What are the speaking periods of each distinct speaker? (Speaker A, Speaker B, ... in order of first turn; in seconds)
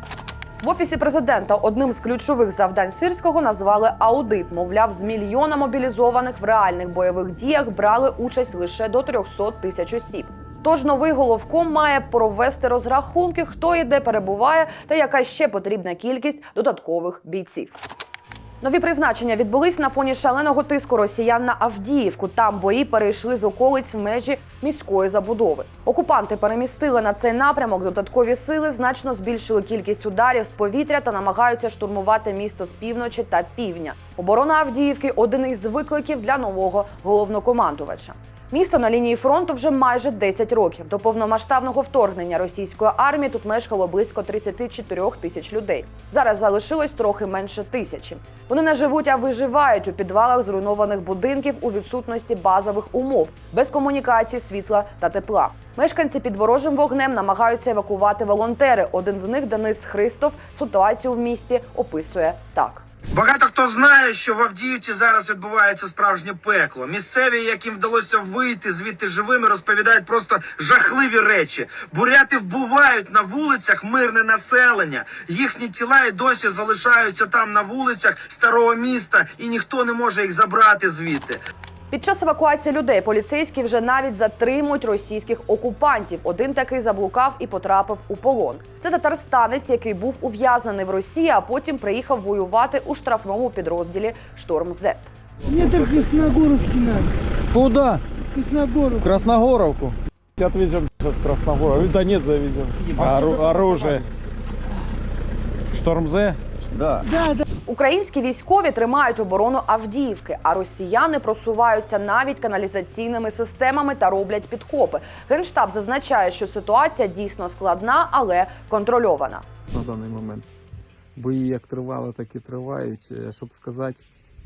Speaker A: 0.6-17.7, 18.6-62.8, 81.9-95.1, 107.7-119.5
Speaker B: 63.1-81.4
Speaker C: 95.5-97.1, 98.3-99.1, 103.2-103.9, 107.1-107.4
Speaker D: 97.5-98.0, 99.0-104.0, 105.7-107.0
Speaker E: 119.7-120.5, 121.2-124.0